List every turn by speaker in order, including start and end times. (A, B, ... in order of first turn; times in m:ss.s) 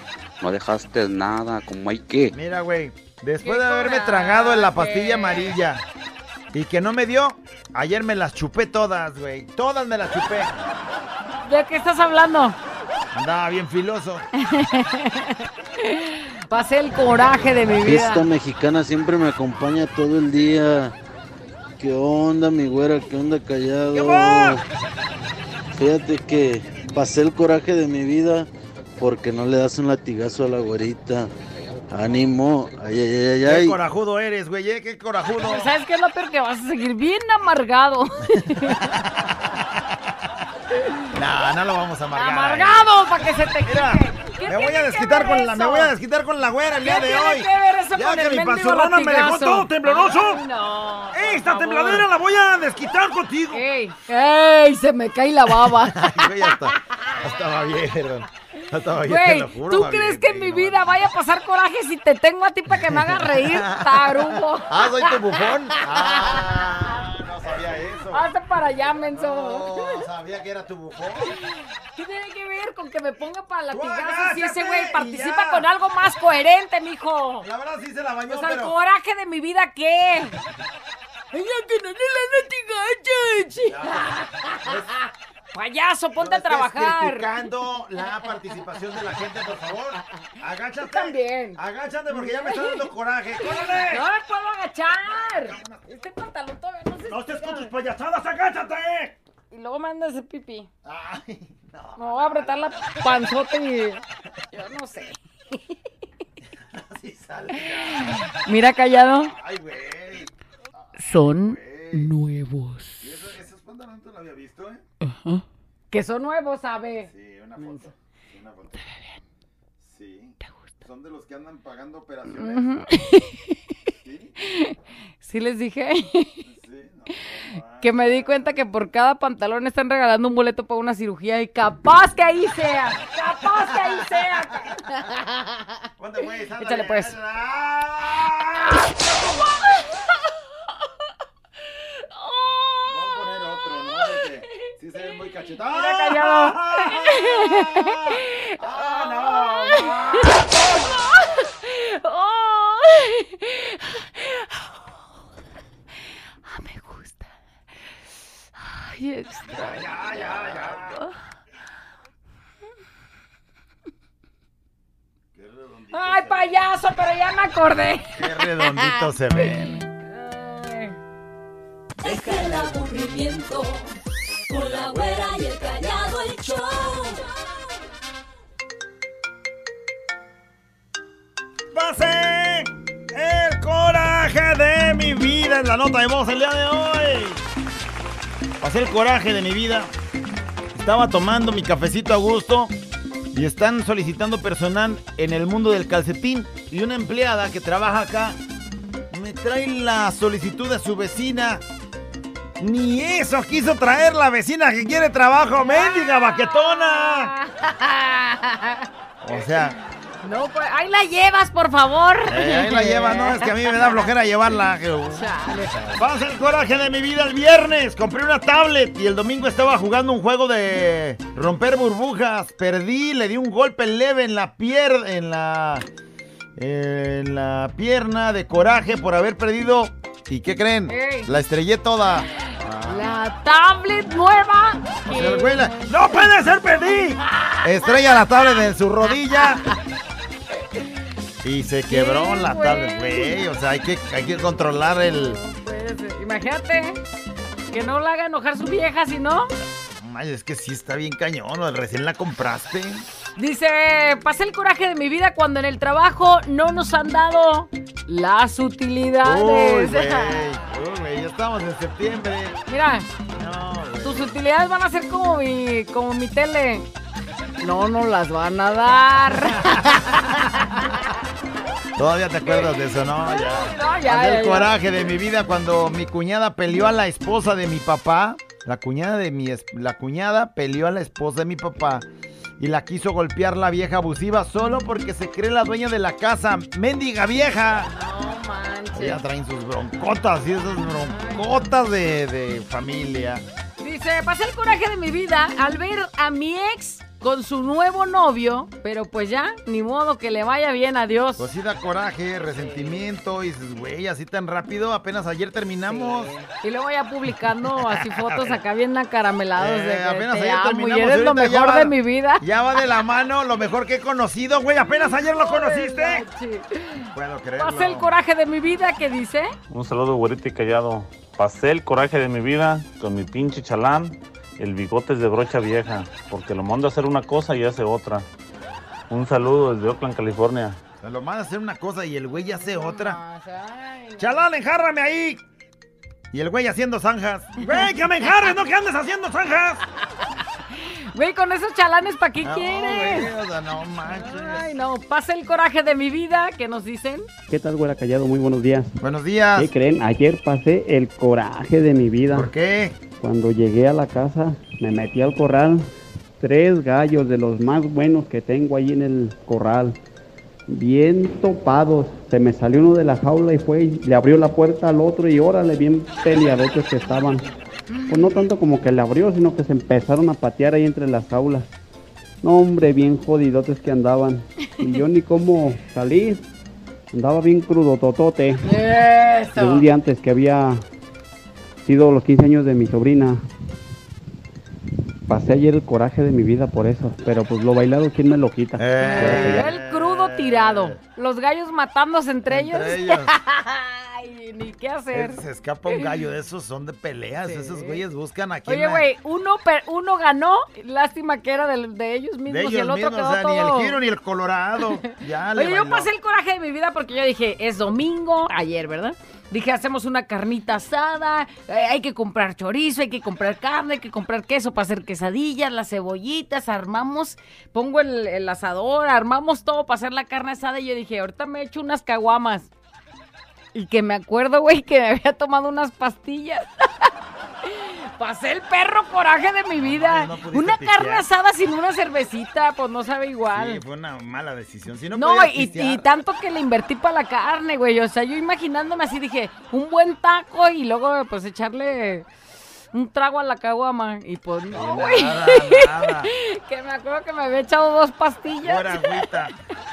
0:00.4-0:02.4 A
0:02.3-0:05.8 B
0:03.4-0:05.6 C
0:06.5-0:10.5 B
0:11.5-0:12.6 C
0:13.1-0:14.2 B
0:14.4-0:18.2 C
0:17.4-0:20.9 D
0:21.8-0:24.6 D
0:23.9-0:24.6 B
0:25.7-0:31.3 D
0:31.9-0:33.8 D
0:33.4-0:35.7 B
0:35.4-0:38.9 C
0:38.9-0:39.2 B
0:41.1-0:42.9 B
0:42.2-0:45.9 C
0:43.6-0:50.4 B
0:46.8-0:52.1 C
0:51.1-0:53.6 B
0:53.5-0:57.2 C
0:55.6-1:00.9 B
0:59.1-1:06.6 C
1:02.8-1:08.2 B
1:08.1-1:10.0 C
1:09.2-1:11.3 B
1:11.4-1:17.5 C
1:13.7-1:15.7 B
1:17.4-1:18.7 B
1:18.3-1:20.4 C
1:21.3-1:25.0 C
1:23.6-1:24.9 B
1:25.5-1:27.3 C
1:26.2-1:34.0 B
1:30.9-1:31.6 C
1:32.1-1:32.9 C
1:33.4-1:37.7 C
1:35.3-1:35.9 B
1:37.0-1:39.2 B
1:39.5-1:40.7 C
1:40.8-1:43.0 B
1:42.0-1:44.0 C
1:44.5-1:45.2 C
1:46.6-1:48.2 B
1:48.4-1:49.3 C
1:49.2-1:52.2 B
1:51.0-1:52.9 C
1:53.0-1:54.8 B
1:55.9-1:57.8 C
1:57.0-1:58.9 B
1:59.8-2:02.7 B
2:02.4-2:03.4 C
2:04.0-2:04.3 B
2:04.4-2:06.4 C
2:06.4-2:08.6 B
2:07.8-2:15.2 C
2:13.5-2:14.7 B
2:16.0-2:18.8 B
2:16.6-2:17.1 C
2:22.1-2:23.0 C
2:22.9-2:30.5 B
2:25.7-2:34.1 C
2:36.5-2:37.3 C
2:38.6-2:41.1 C
2:39.5-2:41.0 B
2:45.4-2:46.5 B
2:45.9-2:51.0 C
2:48.2-2:49.8 B
2:52.0-2:53.9 E
2:54.5-2:57.2 E
3:01.7-3:07.4 B
3:08.6-3:09.9 B
3:10.7-3:12.7 B
3:13.3-3:18.4 B
3:19.1-3:21.6 B
3:22.6-3:27.3 B
3:25.6-3:28.9 C
3:29.2-3:29.8 B
3:30.2-3:34.1 C
3:32.3-3:35.3 B
3:35.1-3:35.9 C
3:35.8-3:45.8 B
3:46.6-3:53.1 B
3:50.9-3:51.3 C
3:52.9-3:56.2 C
3:55.1-3:59.6 B
3:57.3-3:58.6 C
3:59.3-3:59.7 C
4:01.4-4:05.4 B
4:01.9-4:03.3 C
4:04.9-4:07.0 C
4:07.7-4:09.5 C
4:09.9-4:13.0 B
4:13.4-4:20.6 C
4:19.2-4:22.6 B
4:22.7-4:23.1 C
4:23.4-4:24.3 B
4:24.0-4:26.9 C
4:27.6-4:31.0 C
4:32.0-4:42.1 B
4:33.2-4:34.7 C
4:42.6-4:47.9 B
4:47.8-4:49.2 C
4:48.9-4:53.4 B
4:51.1-4:51.6 C
4:53.8-5:01.4 C
5:01.4-5:06.3 B
5:02.6-5:03.0 C
5:05.8-5:12.4 C
5:07.7-5:08.6 B
5:09.6-5:16.2 B
5:15.3-5:17.0 C
5:17.1-5:18.1 B
5:17.6-5:19.5 C
5:19.7-5:28.2 F
5:29.1-5:30.8 F
5:31.0-5:33.2 B
5:32.6-5:34.4 C
5:34.2-5:35.4 B
5:36.3-5:39.8 B
5:40.8-5:43.3 C
5:42.4-5:44.7 B
5:44.1-5:47.3 C
5:47.5-5:48.9 G
5:49.0-5:49.7 B
5:49.6-5:52.5 G
5:52.3-5:53.0 B
5:53.2-5:55.8 G
5:56.4-6:00.0 G
6:00.7-6:07.4 G
6:08.1-6:11.7 G
6:12.4-6:16.4 G
6:17.1-6:18.7 G
6:18.6-6:19.8 C
6:19.6-6:20.8 G
6:21.8-6:23.4 G
6:25.3-6:29.7 G
6:28.8-6:31.0 B
6:29.0-6:35.4 C
6:32.5-6:33.3 B
6:35.1-6:39.0 B
6:37.4-6:38.0 C
6:38.7-6:44.0 C
6:42.5-6:46.1 B
6:45.6-7:02.7 C
7:03.7-7:06.7 C
7:07.7-7:13.8 C
7:09.8-7:11.3 B
7:13.5-7:16.0 B
7:15.2-7:22.3 C
7:22.9-7:29.2 C
7:24.7-7:26.3 B
7:28.6-7:29.5 B